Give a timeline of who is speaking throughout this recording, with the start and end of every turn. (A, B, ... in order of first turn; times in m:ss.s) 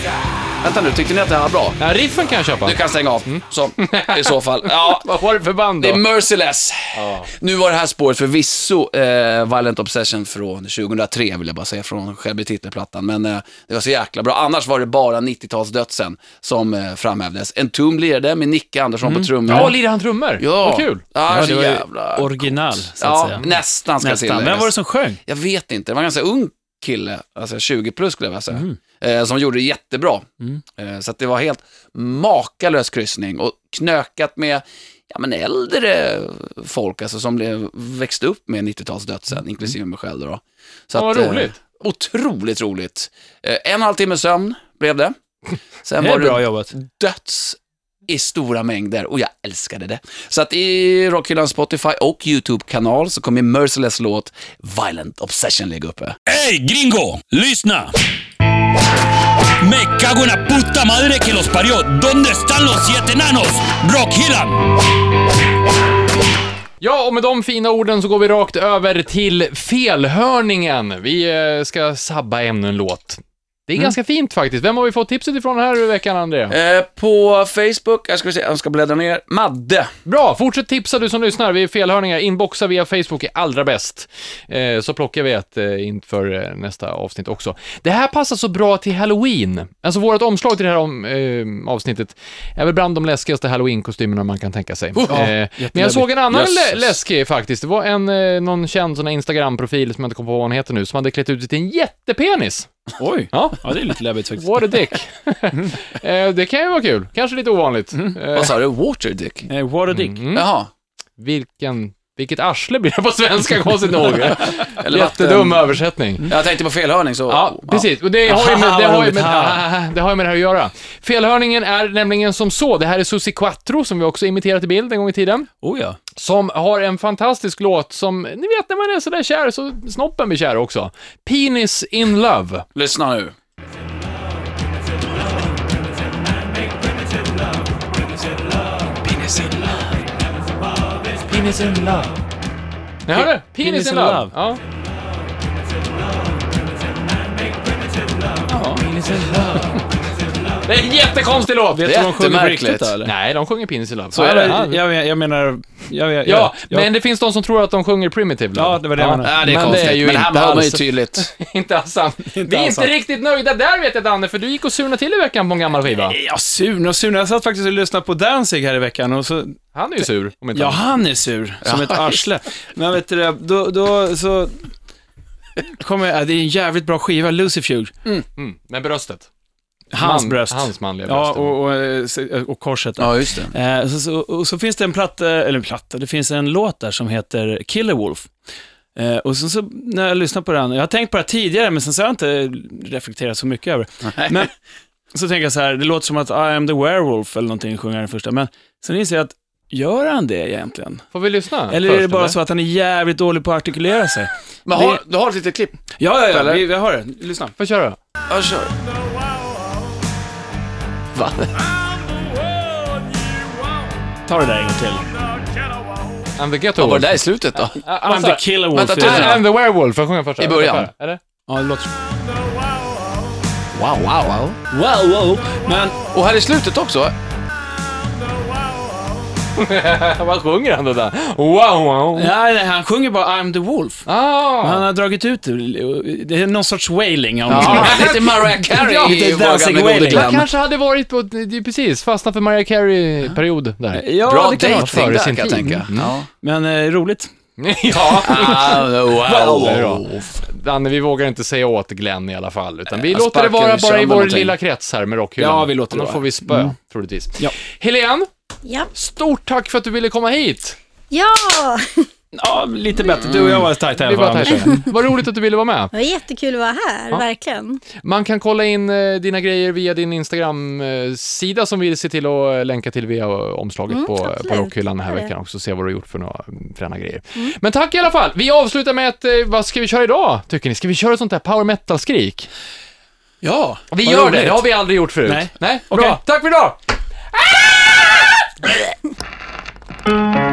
0:00.6-0:01.8 A
0:01.8-0:06.0 B
0:02.6-0:05.1 A
0:05.8-0:19.8 A
0:07.0-0:07.3 B
0:19.0-0:19.7 C
0:19.5-0:21.0 B
0:20.4-0:24.7 A
0:21.3-0:23.5 C
0:24.0-0:25.2 C
0:25.2-0:45.1 A
0:28.5-0:28.8 C
0:40.9-0:41.5 B
0:45.8-0:56.2 A
0:46.0-0:46.7 C
0:56.3-0:57.9 D
0:59.6-1:04.7 D
1:06.8-1:16.6 B
1:16.5-1:19.9 A
1:20.0-1:43.7 B
1:35.0-1:35.2 A
1:35.1-1:36.1 C
1:36.3-1:37.0 A
1:43.0-1:44.7 C
1:44.4-1:48.5 B
1:45.5-1:45.8 C
1:48.3-1:49.5 A
1:49.5-1:50.2 C
1:49.9-1:50.5 B
1:50.3-1:50.7 A
1:51.2-1:56.3 B
1:54.6-1:55.7 A
1:56.3-1:57.8 A
1:57.3-2:05.5 B
1:58.3-1:59.6 C
2:05.6-2:06.0 C
2:06.2-2:12.6 B
2:12.7-2:13.3 A
2:19.0-2:19.8 C
2:21.3-2:22.1 B
2:23.0-2:24.6 B
2:23.1-2:24.3 C
2:28.5-2:29.0 C
2:28.8-2:29.8 B
2:30.6-2:31.9 B
2:31.7-2:33.1 C
2:31.8-2:33.0 A
2:33.0-2:34.8 B
2:34.1-2:36.9 C
2:36.2-2:46.2 B
2:38.5-2:39.7 C
2:39.2-2:41.2 A
2:42.3-2:42.9 C
2:45.9-2:49.6 C
2:49.7-2:50.8 B
2:50.5-2:54.7 C
2:51.6-2:52.2 A
2:55.6-2:57.9 C
2:58.4-2:59.3 B
2:59.9-3:08.3 C
2:59.9-3:01.6 B
3:03.0-3:03.5 A
3:08.9-3:14.5 C
3:14.1-3:14.5 A
3:15.1-3:21.0 C
3:21.1-3:22.4 B
3:21.7-3:25.0 C
3:24.7-3:26.6 A
3:26.0-3:27.6 C
3:27.6-3:28.0 B
3:28.3-3:28.7 A
3:31.1-3:31.6 A
3:34.2-3:35.1 C
3:36.4-3:37.2 B
3:36.8-3:37.8 A
3:37.8-3:38.4 B
3:37.9-3:39.4 C
3:38.7-3:39.4 A
3:39.0-3:41.2 B
3:40.4-3:40.9 A
3:41.5-3:42.0 C
3:43.7-3:44.6 A
3:44.7-3:46.0 C
3:46.1-3:47.1 A
3:49.6-3:52.3 B
3:52.1-3:54.1 C
3:54.0-3:54.9 B
3:54.6-3:58.1 C
3:57.4-4:00.4 A
3:57.5-3:59.1 B
3:58.9-4:00.4 C
4:00.0-4:04.0 B
4:03.9-4:05.5 C
4:04.2-4:06.3 A
4:04.6-4:06.1 B
4:06.4-4:07.3 C
4:07.6-4:18.3 B
4:08.2-4:10.3 A
4:12.9-4:14.5 A
4:15.4-4:16.7 C
4:18.6-4:18.9 E
4:18.9-4:20.8 B
4:21.1-4:22.1 E
4:22.3-4:24.9 C
4:23.2-4:23.6 A
4:24.0-4:25.9 B
4:24.5-4:24.8 E
4:25.9-4:27.8 E
4:28.0-4:42.5 B
4:33.9-4:35.3 E
4:43.4-4:44.6 A
4:43.9-4:46.8 B
4:45.2-4:46.2 C
4:47.3-4:48.4 B